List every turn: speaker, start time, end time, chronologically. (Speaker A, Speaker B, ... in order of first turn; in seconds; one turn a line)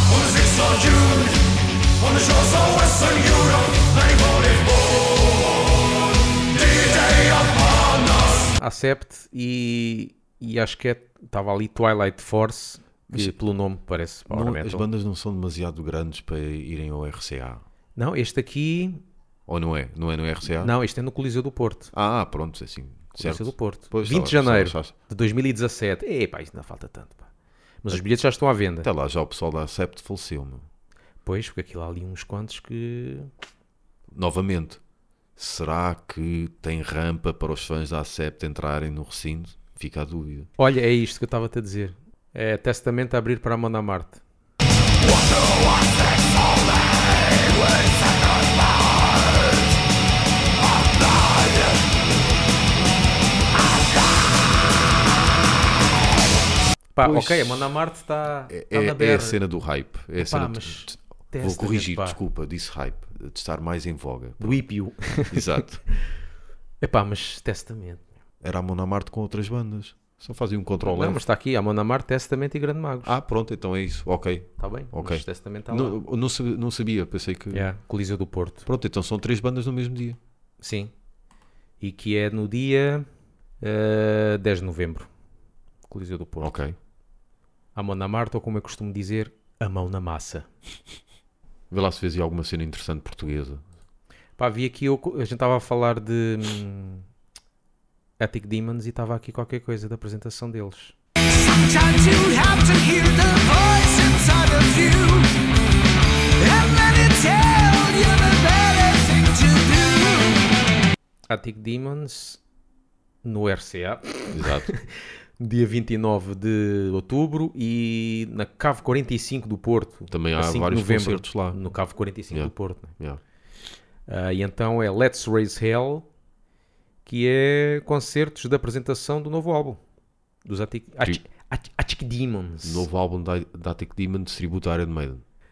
Speaker A: 0.9-1.3
Speaker A: 2.5-3.9
Speaker A: 8.3-14.9
Speaker B: 13.1-13.3
Speaker B: 14.3-17.6
Speaker A: 17.9-19.0
Speaker B: 19.5-20.7
Speaker A: 20.6-21.9
Speaker B: 21.9-24.9
Speaker A: 23.1-27.3
Speaker A: 27.8-28.9
Speaker B: 28.8-30.6
Speaker A: 31.2-33.3
Speaker B: 34.1-34.8
Speaker B: 35.4-40.5
Speaker A: 40.6-44.2
Speaker A: 57.0-59.4
Speaker B: 57.0-57.7
Speaker B: 58.5-64.6
Speaker A: 60.2-62.2
Speaker A: 64.4-66.2
Speaker B: 65.2-65.8
Speaker A: 66.8-68.1
Speaker B: 68.4-71.2
Speaker A: 70.8-73.2
Speaker B: 73.0-77.7
Speaker A: 74.6-76.0
Speaker A: 77.5-78.7
Speaker B: 78.7-80.2
Speaker A: 80.6-80.9
Speaker A: 81.8-83.0
Speaker A: 83.6-85.1
Speaker A: 85.9-86.5
Speaker B: 86.4-86.8
Speaker A: 87.7-90.5
Speaker B: 91.7-93.6
Speaker A: 94.4-97.0
Speaker A: 98.2-101.0
Speaker C: 101.4-105.3
Speaker A: 101.5-105.1
Speaker C: 106.4-110.4
Speaker A: 106.5-107.2
Speaker A: 108.0-108.3
Speaker A: 109.1-109.6
Speaker A: 111.3-112.4
Speaker A: 113.2-123.0
Speaker B: 114.3-114.7
Speaker B: 120.1-121.6
Speaker B: 122.3-123.2
Speaker A: 124.1-126.1
Speaker A: 127.0-129.8
Speaker A: 130.4-132.9
Speaker B: 132.6-135.2